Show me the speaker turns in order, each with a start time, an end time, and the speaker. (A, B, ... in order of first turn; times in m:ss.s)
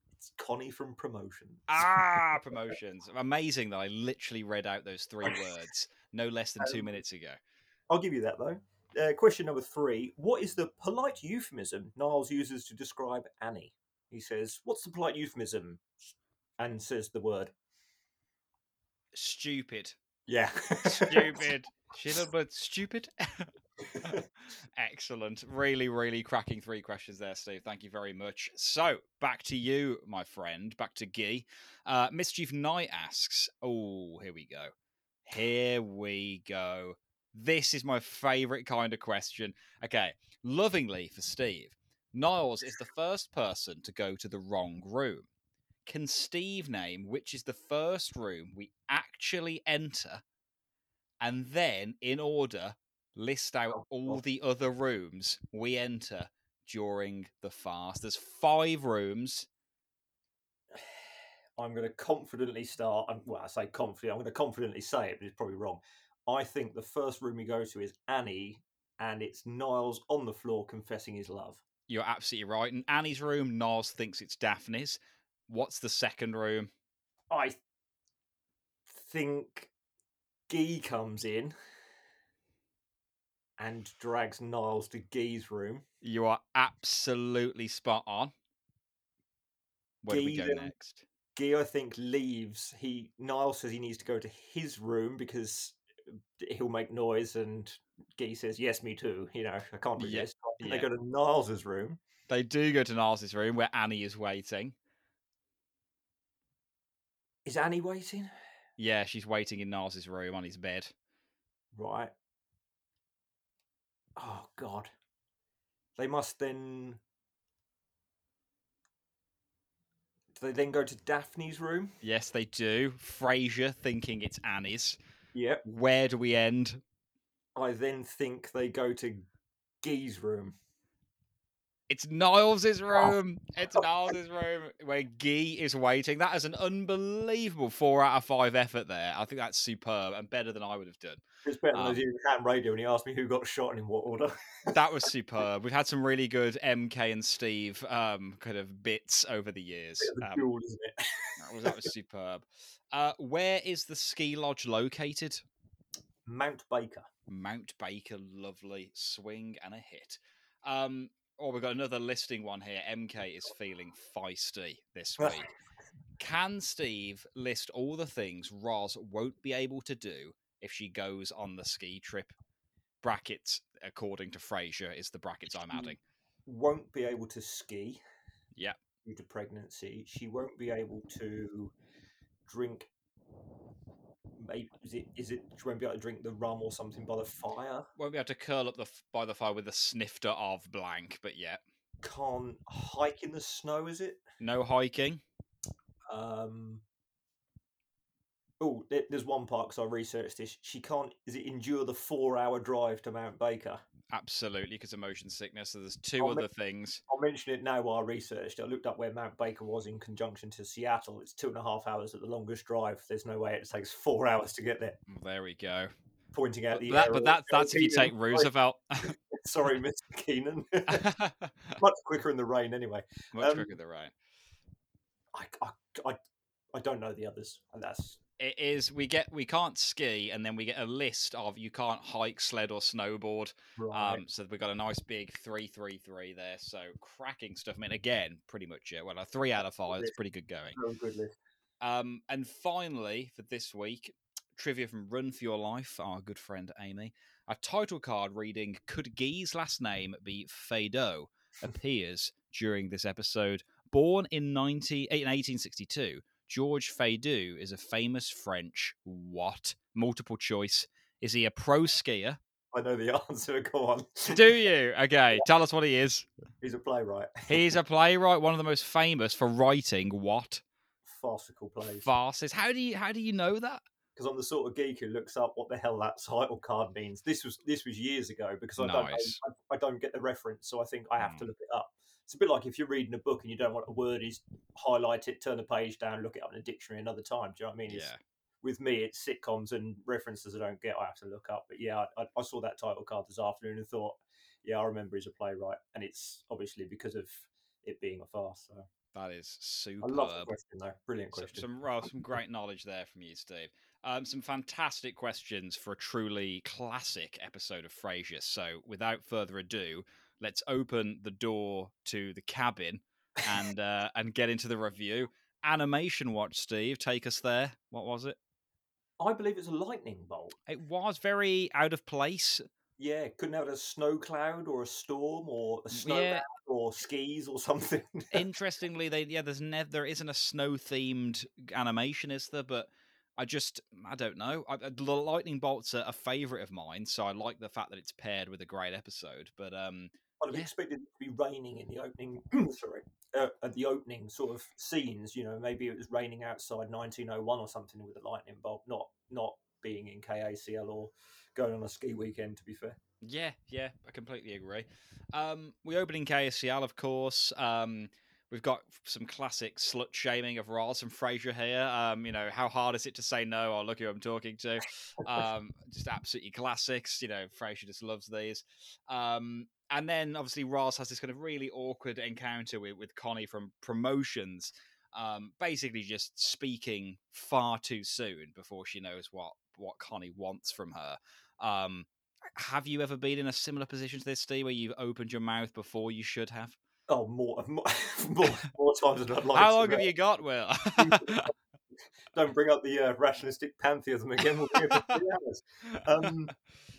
0:00.2-0:02.2 A
0:01.7-0:07.4 B
0:06.6-0:06.9 A
0:07.9-0:15.9 A
0:16.6-0:17.5 A
0:19.1-0:20.0 B
0:20.3-0:21.5 A
0:21.0-0:24.2 B
0:23.9-0:24.2 A
0:24.8-0:34.7 B
0:35.2-0:45.3 B
0:45.8-0:50.2 B
0:51.2-0:59.5 B
0:53.7-0:54.2 A
1:00.7-1:11.6 A
1:11.9-1:16.7 B
1:17.3-1:17.6 A
1:18.9-1:19.7 A
1:20.5-1:21.5 A
1:23.6-1:25.8 A
1:26.0-1:28.3 B
1:30.0-1:31.0 B
1:30.1-1:30.7 A
1:31.3-1:35.8 A
1:36.4-1:42.0 A
1:40.0-1:40.9 B
1:42.3-1:44.7 B
1:47.4-1:48.3 A
1:48.8-1:50.9 B
1:51.7-1:52.1 A
1:54.2-1:54.9 A
1:56.0-1:57.0 A
2:00.4-2:01.9 A
2:02.0-2:05.0 B
2:05.3-2:05.6 A
2:05.6-2:06.8 B
2:07.6-2:09.2 A
2:09.8-2:10.5 A
2:11.9-2:22.0 B
2:21.4-2:24.7 A
2:24.7-2:30.4 B
2:30.0-2:31.8 A
2:31.4-2:35.4 B
2:36.2-2:37.1 A
2:37.3-2:45.5 B
2:45.2-2:45.4 A
2:46.2-2:52.3 B
2:53.0-2:56.0 B
2:56.4-2:58.0 A
2:59.0-3:01.7 A
3:02.5-3:02.9 A
3:04.4-3:07.9 A
3:08.0-3:11.6 B
3:12.0-3:14.2 A
3:14.4-3:15.2 B
3:16.1-3:16.8 A
3:18.6-3:23.8 A
3:24.1-3:27.0 B
3:26.2-3:26.5 A
3:27.1-3:35.0 A
3:35.1-3:35.9 B
3:36.3-3:38.5 A
3:36.7-3:39.1 B
3:39.0-3:41.1 A
3:40.9-3:41.8 B
3:41.8-3:43.7 A
3:43.3-3:44.1 B
3:45.3-3:46.2 A
3:46.7-3:48.2 A
3:48.4-4:00.8 B
3:53.8-3:54.2 A
3:59.9-4:00.1 A
4:00.7-4:01.4 A
4:01.8-4:22.4 B
4:22.7-4:24.5 A
4:24.3-4:26.3 B
4:26.6-4:27.3 A
4:27.5-4:30.6 B
4:31.1-4:32.1 A
4:32.0-4:33.8 B
4:34.2-4:48.1 A
4:38.8-4:39.4 B
4:41.2-4:41.4 B
4:47.9-4:48.2 B
4:48.6-4:58.9 A
4:59.1-5:00.5 B
5:00.0-5:01.7 A
5:01.3-5:18.4 B
5:19.2-5:20.6 A
5:20.7-5:22.6 B
5:23.0-5:28.4 A
5:25.9-5:26.4 B
5:28.3-5:40.7 B
5:40.4-5:53.0 A
5:53.2-6:26.8 B
6:27.1-6:30.1 A
6:29.5-6:31.4 B
6:30.9-6:31.5 A
6:32.3-6:36.5 A
6:34.9-6:35.2 B